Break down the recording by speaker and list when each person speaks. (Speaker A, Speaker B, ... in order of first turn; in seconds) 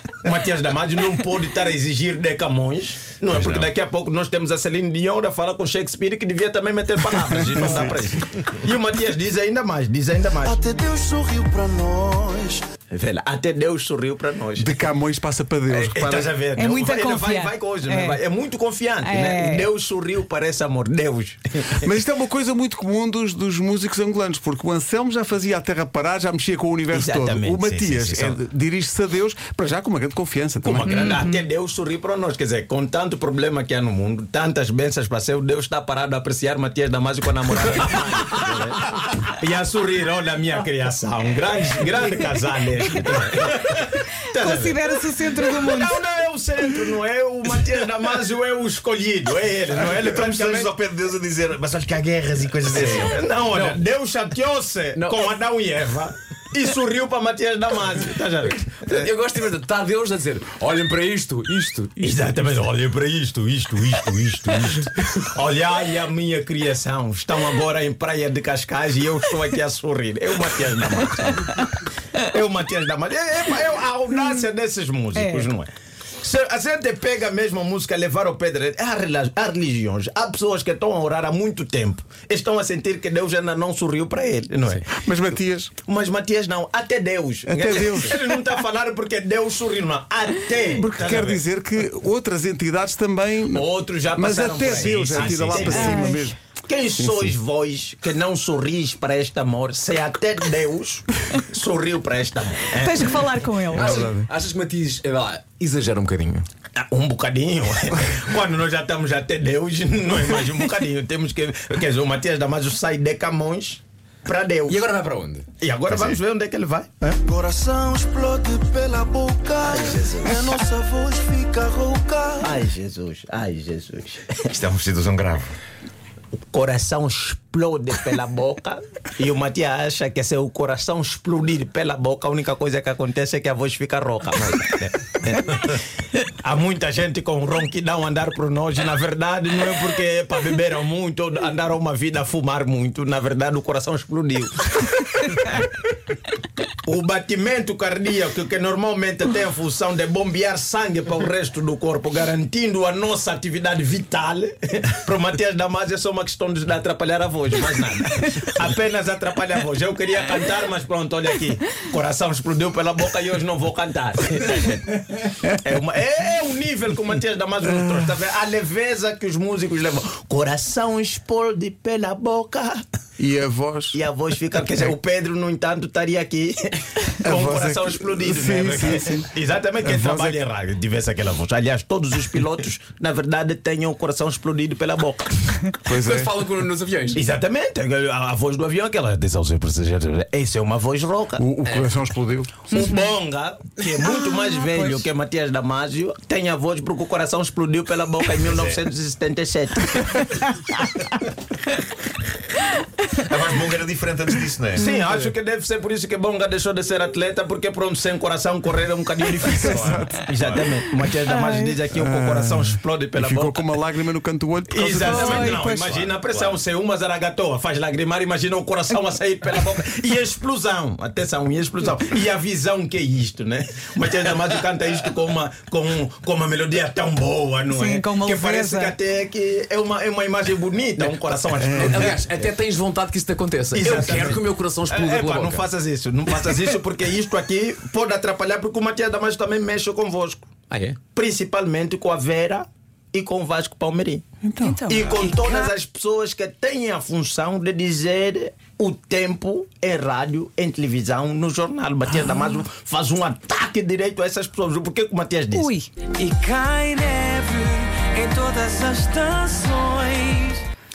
Speaker A: 0.2-10.6, 12.9-14.8, 15.7-21.9, 26.9-28.4, 30.6-50.7, 52.7-59.1, 62.0-84.8, 85.8-91.4, 93.5-96.1, 96.7-103.2, 106.7-114.9, 115.6-117.2, 119.6-120.5, 122.4-124.4, 126.5-135.8, 136.4-145.6, 146.8-172.8, 173.9-185.6, 187.1-191.4, 192.7-200.4, 204.8-213.7, 214.7-232.4, 233.7-240.5, 241.1-244.2, 244.9-255.7
Speaker B: 3.3-3.7, 49.7-53.2, 94.9-95.8, 115.9-116.2, 124.5-125.5, 198.4-198.8, 203.2-204.9, 209.6-210.7, 215.6-216.6
Speaker C: 7.5-8.0, 14.6-16.3, 21.7-31.2, 84.8-85.7, 87.5-88.2, 90.7-96.4, 97.0-97.3, 103.7-104.3, 173.2-174.0, 177.2-179.3, 179.8-180.4, 185.8-186.3, 191.4-192.8, 209.5-210.2, 211.9-215.6, 244.4-244.8
Speaker D: 10.4-12.6, 117.2-122.5, 256.2-260.3
Speaker E: 16.5-18.2, 19.0-19.7, 30.9-31.4, 44.3-46.0, 75.1-75.5, 95.6-96.3, 102.7-104.1, 194.2-195.0, 211.3-211.8, 215.0-215.9, 227.7-228.9, 244.6-245.7, 255.5-255.9
Speaker F: 52.7-53.8, 54.9-55.2, 58.8-62.4, 103.7-106.5, 114.7-115.4, 185.9-187.2, 231.7-235.6, 240.7-241.0, 244.9-245.3